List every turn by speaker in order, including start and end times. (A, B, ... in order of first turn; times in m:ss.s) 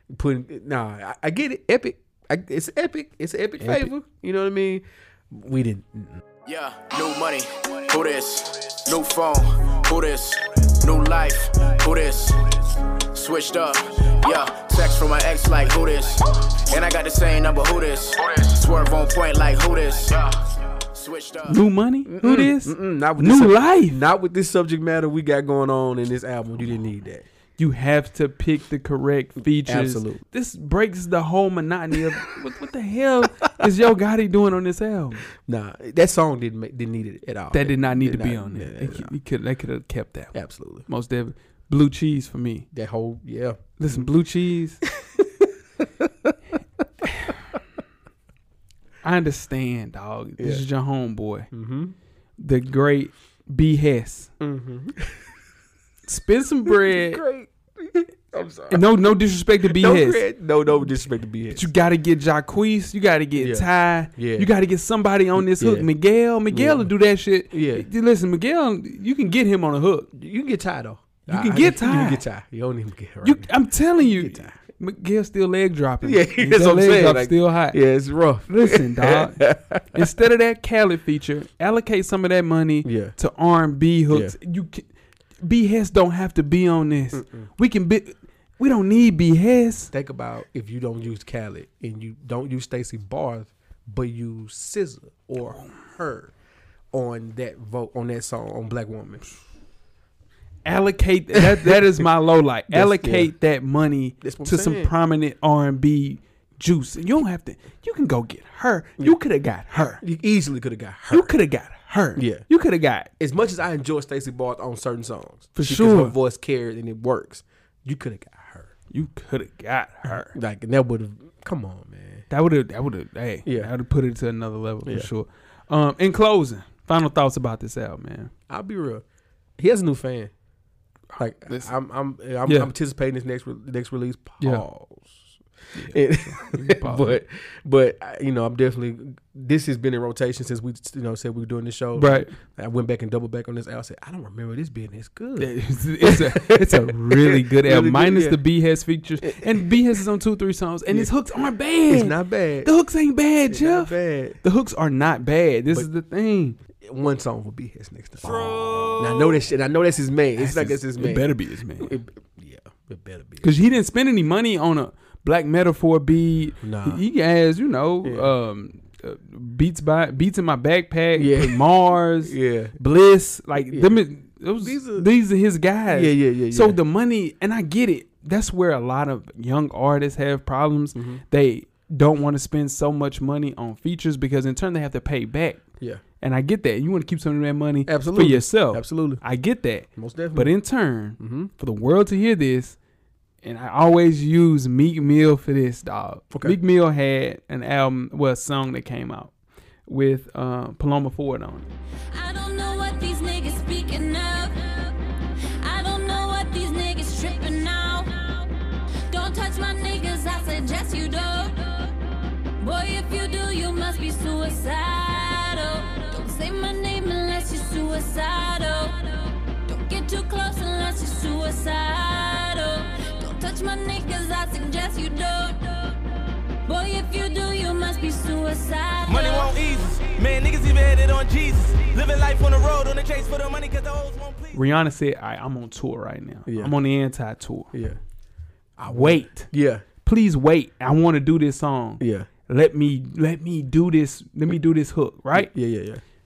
0:00.2-0:06.2 A
0:03.6-0:03.9 B
0:06.5-0:21.6 C
0:21.5-0:24.0 B
0:22.0-0:27.2 A
0:27.6-0:35.3 B
0:29.6-0:30.2 A
0:35.4-0:39.1 A
0:37.5-0:40.3 B
0:40.3-0:40.9 A
0:40.9-0:42.7 B
0:42.7-0:44.1 A
0:43.8-0:44.8 B
0:45.1-0:46.1 A
0:47.0-0:47.4 B
0:49.0-0:51.5 B
0:50.4-0:50.6 A
0:51.5-0:52.0 A
0:52.4-0:54.3 B
0:54.4-0:55.3 A
0:56.1-0:57.2 B
0:56.7-0:58.9 A
0:58.7-1:00.2 B
0:59.6-1:01.6 A
1:01.5-1:10.1 B
1:03.4-1:04.5 A
1:05.4-1:05.9 A
1:06.5-1:06.9 A
1:07.5-1:07.9 A
1:10.1-1:14.6 A
1:11.3-1:12.2 B
1:13.2-1:17.8 B
1:16.0-1:20.1 A
1:18.5-1:24.9 B
1:22.8-1:23.1 A
1:24.1-1:24.4 A
1:25.4-1:29.9 B
1:27.1-1:27.5 A
1:29.9-1:36.3 A
1:36.9-1:39.3 A
1:40.6-1:50.0 B
1:42.7-1:43.3 A
1:44.2-1:44.9 A
1:50.0-1:51.3 A
1:51.1-1:53.1 B
1:52.1-1:52.4 A
1:53.2-1:58.7 A
1:55.6-1:56.1 B
1:58.9-2:00.3 B
2:00.0-2:02.3 A
2:02.3-2:08.3 B
2:03.4-2:03.7 A
2:04.8-2:05.1 A
2:08.5-2:09.0 A
2:09.6-2:10.3 A
2:11.1-2:11.7 B
2:11.2-2:28.4 A
2:12.5-2:12.7 B
2:15.8-2:17.2 B
2:22.0-2:22.3 B
2:25.4-2:36.6 B
2:29.2-2:29.8 A
2:31.9-2:32.7 A
2:33.5-2:34.4 A
2:36.8-2:38.4 A
2:39.0-2:43.5 A
2:40.4-2:42.0 B
2:43.4-3:05.6 B
2:46.6-2:47.0 A
2:48.0-2:48.3 A
2:51.1-2:51.7 A
2:52.2-2:52.8 A
2:53.6-2:54.0 A
2:54.6-2:55.1 A
2:55.9-2:56.8 A
3:01.0-3:01.2 A
3:06.2-3:12.8 B
3:07.9-3:09.2 A
3:10.0-3:10.6 A
3:11.2-3:11.5 A
3:13.4-3:19.3 B
3:16.3-3:16.6 A
3:19.9-3:21.7 B
3:22.1-3:25.0 D
3:25.6-3:28.5 D
3:29.1-3:31.9 D
3:32.6-3:45.9 D
3:46.6-3:49.5 D
3:49.1-3:54.6 E
3:54.5-3:57.7 B
3:56.5-3:56.8 A
3:57.7-3:58.0 A
3:58.8-3:59.8 A
3:58.9-3:59.5 B
4:00.0-4:05.5 B
4:02.0-4:02.3 A
4:05.3-4:06.0 A